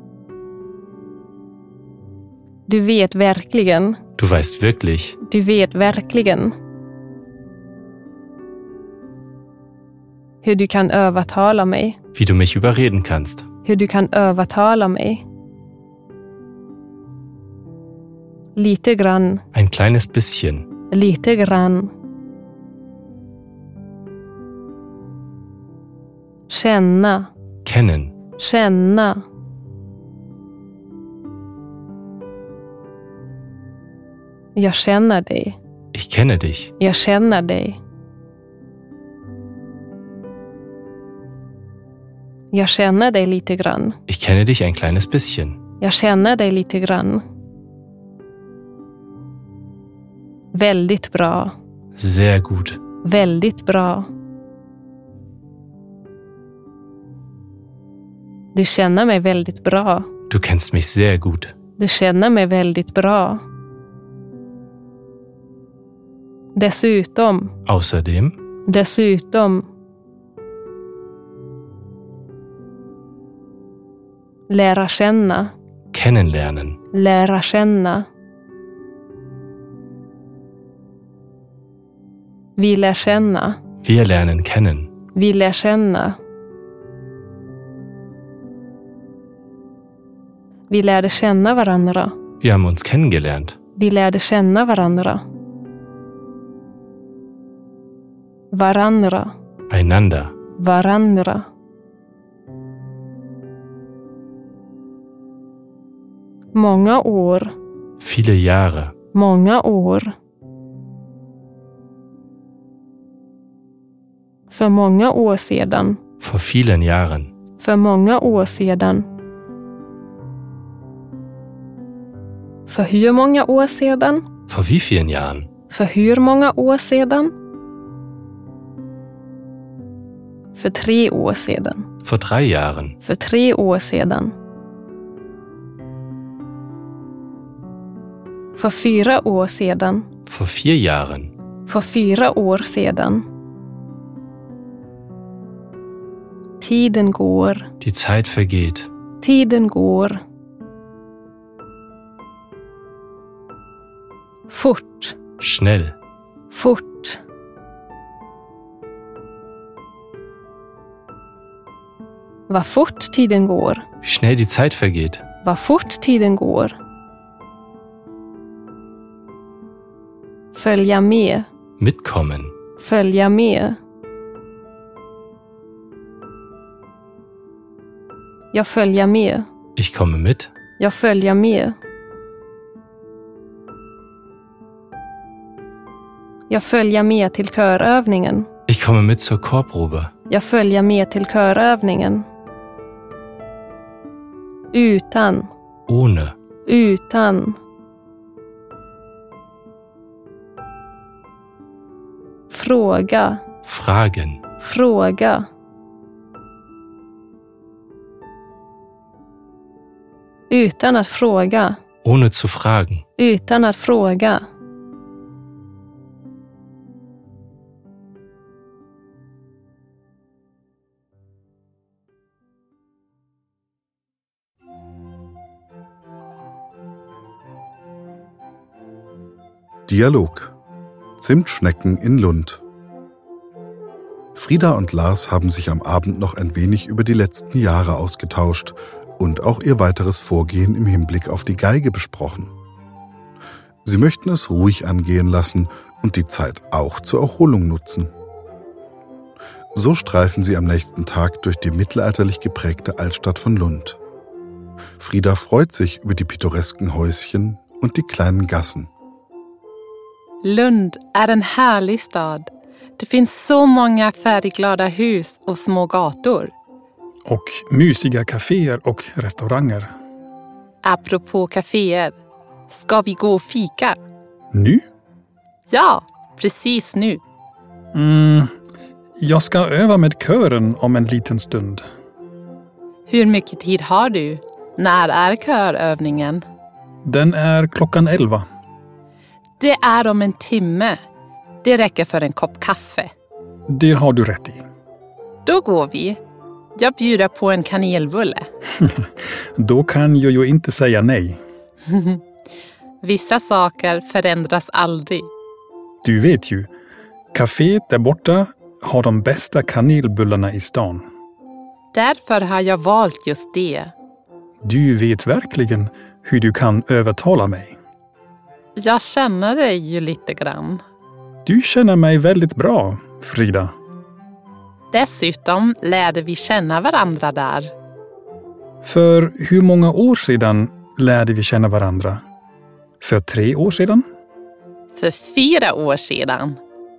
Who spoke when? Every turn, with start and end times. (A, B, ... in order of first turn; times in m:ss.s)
0:02.7-0:04.0 A
0:04.2-0:05.2 B
0:05.2-0:06.5 A
0:10.4-0:12.0 A
0:12.1-0:13.4 B
0:13.6-0:15.2 A
0:18.6-0:19.4 A
0:19.5-0:20.6 B
0:20.9-0:21.9 A
0:26.5-0:27.3 A
0:27.6-0:28.1 B
0:28.4-0:29.2 A
0:34.6-0:35.6 A
0:35.9-0:36.7 B
0:36.8-0:37.8 A
0:42.5-0:44.0 A
0:44.1-0:45.6 B
0:45.8-0:47.2 A
0:50.5-0:51.5 A
0:52.0-0:52.8 B
0:53.0-0:54.1 A
0:58.5-1:00.1 A
1:00.3-1:01.5 B
1:01.8-1:03.4 A
1:06.5-1:07.5 A
1:07.6-1:08.4 B
1:08.6-1:09.6 A
1:14.5-1:15.5 A
1:15.9-1:16.8 B
1:16.9-1:18.0 A
1:22.6-1:23.6 A
1:23.8-1:24.9 B
1:25.1-1:26.2 A
1:30.7-1:32.1 A
1:32.4-1:33.6 B
1:33.8-1:35.2 A
1:38.5-1:39.3 A
1:39.7-1:40.3 B
1:40.6-1:41.5 A
1:46.5-1:47.5 A
1:48.0-1:48.9 B
1:49.1-1:50.1 A
1:54.5-1:56.0 A
1:56.2-1:57.3 B
1:57.6-1:59.0 A
2:02.7-2:04.2 A
2:04.5-2:05.5 B
2:05.7-2:07.3 A
2:10.5-2:11.8 A
2:12.0-2:12.9 B
2:13.0-2:14.3 A
2:18.5-2:20.1 A
2:20.3-2:21.3 B
2:21.7-2:23.2 A
2:26.6-2:27.7 A
2:27.8-2:28.9 B
2:29.2-2:30.2 A
2:34.5-2:35.2 A
2:35.4-2:35.9 B
2:36.5-2:37.2 A
2:42.5-2:43.8 A
2:44.0-2:45.2 B
2:45.4-2:46.8 A
2:50.5-2:51.4 A
2:51.8-2:52.5 B
2:52.8-2:53.8 A
2:58.5-2:59.4 A
2:59.8-3:00.5 B
3:00.8-3:01.8 A
3:06.5-3:08.5 A
3:08.7-3:10.1 B
3:10.3-3:12.2 A
3:14.7-3:15.5 A
3:15.9-3:16.3 B
3:16.6-3:17.6 A
3:22.5-3:23.4 A
3:23.6-3:24.4 B
3:24.6-3:25.5 A
3:30.5-3:31.8 A
3:32.0-3:33.0 B
3:33.2-3:34.4 A
3:49.9-3:50.5 C
3:51.2-3:52.6 C
3:54.3-4:02.5 C
4:03.8-4:08.1 C
4:09.7-4:14.0 C
4:15.0-4:18.9 C
4:20.4-4:26.5 D
4:27.3-4:29.9 E
4:30.8-4:32.2 D
4:32.7-4:34.0 D
4:34.5-4:34.8 E
4:35.7-4:37.2 D
4:37.9-4:38.5 E
4:39.2-4:41.8 E
4:43.1-4:46.4 D
4:47.0-4:48.4 E
4:49.6-4:51.0 D
4:51.6-4:53.1 D
4:53.7-4:54.6 E
4:55.4-4:56.2 D
4:56.7-4:58.5 D
4:58.8-5:01.4 E
5:01.9-5:02.2 D
5:03.0-5:05.3 D
5:06.0-5:06.7 E
5:07.3-5:11.0 E
5:11.9-5:13.9 D
5:14.6-5:17.8 E
5:18.8-5:20.8 D
5:21.4-5:23.7 E
5:24.9-5:27.7 D
5:28.8-5:32.2 E
5:33.0-5:34.0 E
5:34.9-5:36.6 D